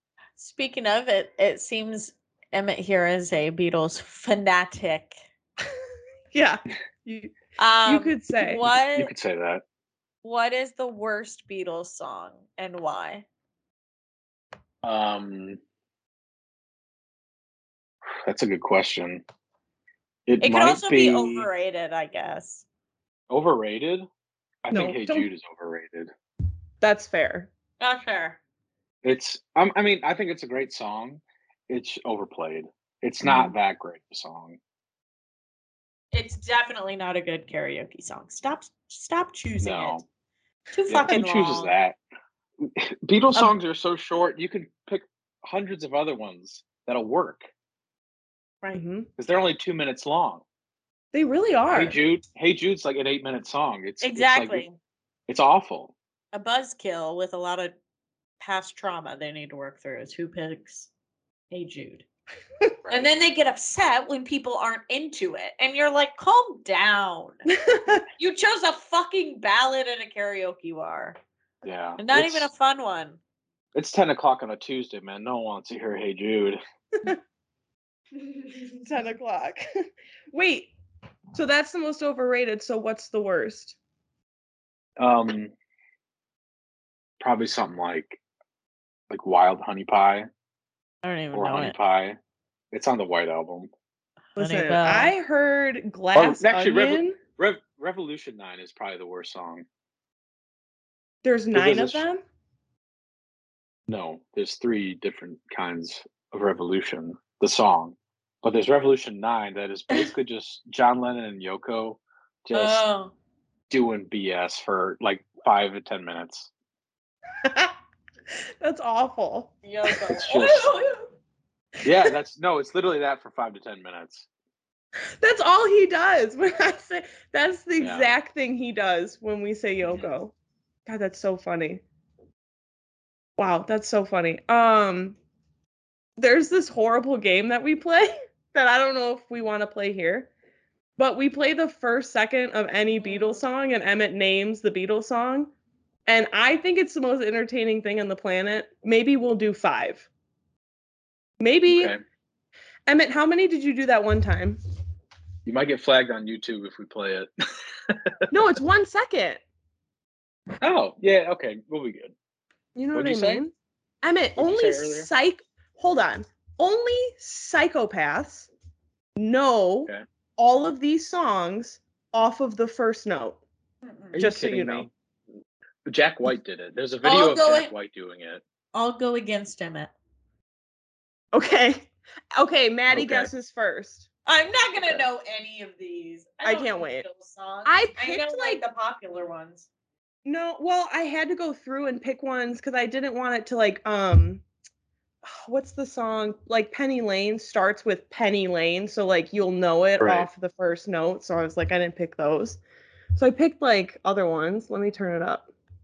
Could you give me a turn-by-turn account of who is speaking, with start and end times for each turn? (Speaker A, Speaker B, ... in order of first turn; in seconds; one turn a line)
Speaker A: 0.4-5.2
Speaker B: 6.3-7.3
Speaker A: 7.6-9.1
Speaker B: 7.8-8.6
Speaker C: 8.9-9.6
Speaker A: 10.2-13.2
Speaker C: 14.8-15.6
Speaker C: 18.1-19.2
Speaker C: 20.3-21.5
Speaker A: 20.4-22.6
Speaker C: 23.3-24.1
Speaker C: 24.6-26.1
Speaker B: 24.7-25.3
Speaker B: 26.8-27.5
Speaker A: 27.8-28.4
Speaker C: 29.0-34.6
Speaker A: 36.1-40.0
Speaker C: 39.6-40.0
Speaker A: 40.7-41.7
Speaker C: 40.9-42.0
Speaker C: 42.6-47.5
Speaker B: 48.7-49.1
Speaker C: 49.2-50.4
Speaker B: 51.1-52.0
Speaker C: 51.7-54.6
Speaker A: 54.0-54.8
Speaker C: 55.3-55.9
Speaker A: 56.3-57.7
Speaker A: 58.4-60.9
Speaker A: 61.5-62.0
Speaker A: 62.9-67.5
Speaker B: 67.5-68.0
Speaker A: 68.2-71.2
Speaker C: 71.6-72.5
Speaker A: 72.0-73.2
Speaker C: 73.7-76.6
Speaker B: 78.8-79.6
Speaker B: 80.3-80.7
Speaker B: 81.3-83.8
Speaker C: 85.0-85.5
Speaker C: 87.2-88.2
Speaker C: 89.1-90.3
Speaker A: 91.0-91.7
Speaker C: 91.3-92.2
Speaker C: 92.7-93.7
Speaker A: 94.4-95.1
Speaker B: 94.4-97.2
Speaker C: 96.1-99.7
Speaker B: 101.2-102.2
Speaker C: 101.5-102.0
Speaker C: 103.9-112.8
Speaker A: 112.5-113.1
Speaker C: 113.7-116.5
Speaker B: 117.4-117.7
Speaker B: 118.6-120.1
Speaker A: 119.6-121.1
Speaker C: 120.1-120.7
Speaker C: 121.8-124.3
Speaker B: 125.2-130.3
Speaker C: 127.8-128.1
Speaker B: 130.8-131.8
Speaker B: 133.4-135.2
Speaker B: 136.2-140.3
Speaker B: 141.0-145.5
Speaker B: 146.1-150.1
Speaker B: 151.4-151.9
Speaker C: 151.7-152.0
Speaker B: 152.9-154.6
Speaker C: 155.4-158.2
Speaker B: 158.3-159.4
Speaker C: 160.6-162.1
Speaker B: 162.8-163.5
Speaker C: 162.9-163.4
Speaker B: 164.0-168.5
Speaker C: 164.3-165.1
Speaker B: 169.2-173.4
Speaker A: 173.8-174.3
Speaker C: 174.1-174.9
Speaker B: 174.2-174.9
Speaker C: 175.8-178.4
Speaker A: 177.0-177.7
Speaker A: 178.7-179.9
Speaker B: 181.3-184.1
Speaker C: 182.9-183.3
Speaker A: 184.2-189.7
Speaker B: 186.4-187.0
Speaker B: 187.7-188.6
Speaker B: 190.2-194.4
Speaker B: 195.2-202.6
Speaker C: 200.0-200.3
Speaker B: 203.1-205.5